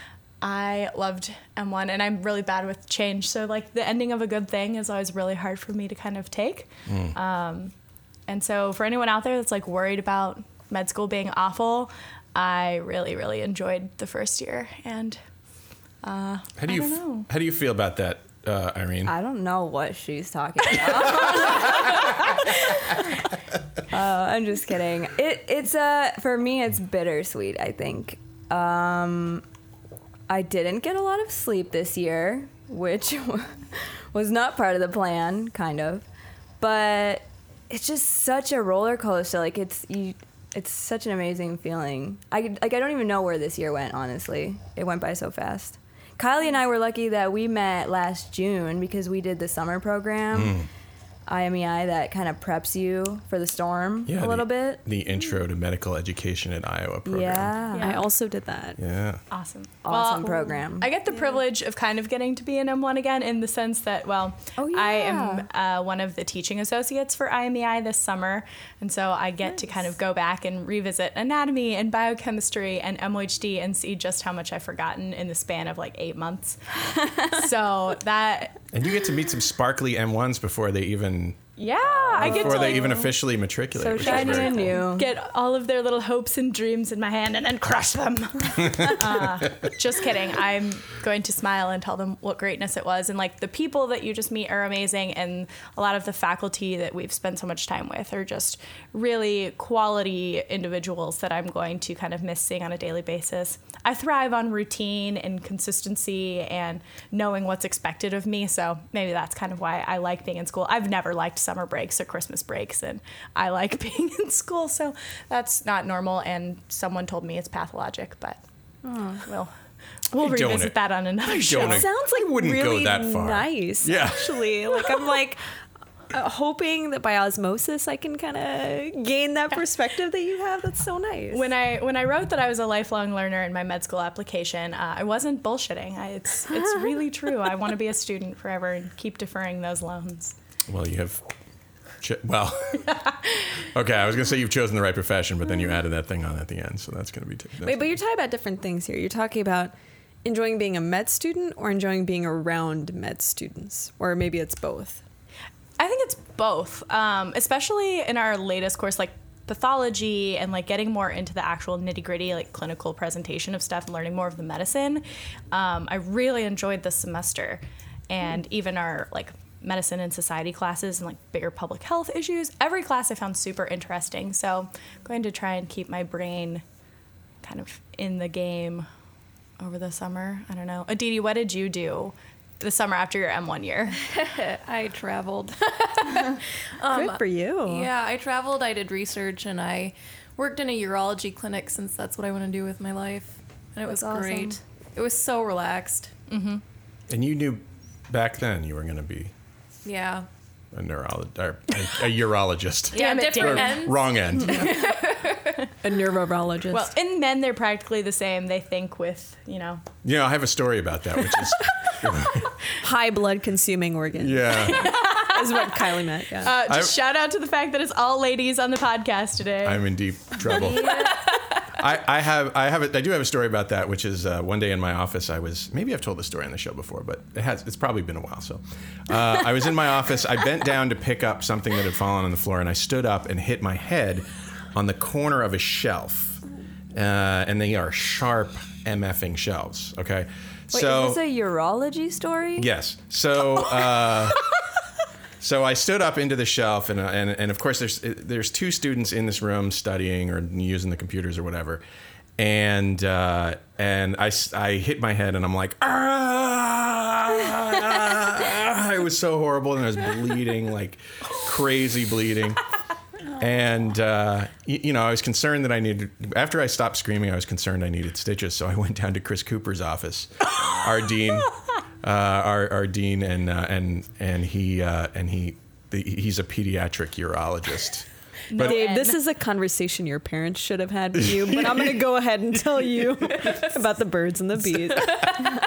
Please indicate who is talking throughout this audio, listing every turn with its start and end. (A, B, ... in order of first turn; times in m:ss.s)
0:00.4-0:07.7 A
0:06.9-0:07.2 B
0:08.3-0:15.2 A
0:16.0-0:17.3 A
0:16.6-0:19.1 B
0:19.1-0:23.0 C
0:23.9-0:29.4 C
0:30.3-0:33.6 C
0:34.1-0:36.0 C
0:36.6-0:50.6 C
0:50.3-0:50.7 B
0:51.3-0:54.8 C
0:54.1-0:57.6 B
0:57.0-0:57.9 C
0:57.7-0:58.1 A
0:57.8-0:58.8 D
0:58.8-0:59.2 B
0:59.3-1:18.6 A
0:59.8-1:01.0 C
1:04.6-1:05.5 C
1:18.7-1:21.4 B
1:21.6-1:23.2 A
1:22.1-1:24.8 B
1:23.7-1:25.1 C
1:24.0-1:58.4 A
1:59.1-1:59.5 A
2:00.1-2:01.9 A
2:00.2-2:04.6 B
2:01.6-2:05.4 D
2:06.1-2:11.5 D
2:11.3-2:20.3 A
2:20.7-2:21.2 B
2:22.0-2:22.9 B
2:23.7-2:27.9 B
2:27.6-2:29.7 D
2:30.2-2:35.0 D
2:35.8-2:56.6 A
2:57.4-2:58.8 A
2:59.6-3:04.0 A
3:04.1-3:16.1 E
3:06.9-3:07.9 D
3:13.9-3:14.5 C
3:16.3-3:16.6 A
3:17.1-3:19.3 B
3:19.8-3:20.3 E
3:20.7-3:24.8 B
3:22.9-3:25.4 E
3:22.9-3:24.0 A
3:25.8-3:26.9 D
3:26.7-3:29.8 A
3:30.0-3:32.5 B
3:32.8-3:36.6 D
3:34.2-3:35.0 B
3:34.7-3:35.7 A
3:36.4-3:39.8 A
3:36.6-3:36.9 B
3:39.6-3:41.0 B
3:40.5-3:41.2 C
3:40.7-3:41.4 A
3:41.8-3:56.4 B
3:56.9-4:01.2 B
4:00.7-4:02.7 C
4:02.6-4:04.4 B
4:05.4-4:11.8 B
4:12.4-4:22.6 B
4:23.4-4:38.8 B
4:38.5-4:39.2 A
4:38.6-4:45.3 D
4:41.2-4:41.9 B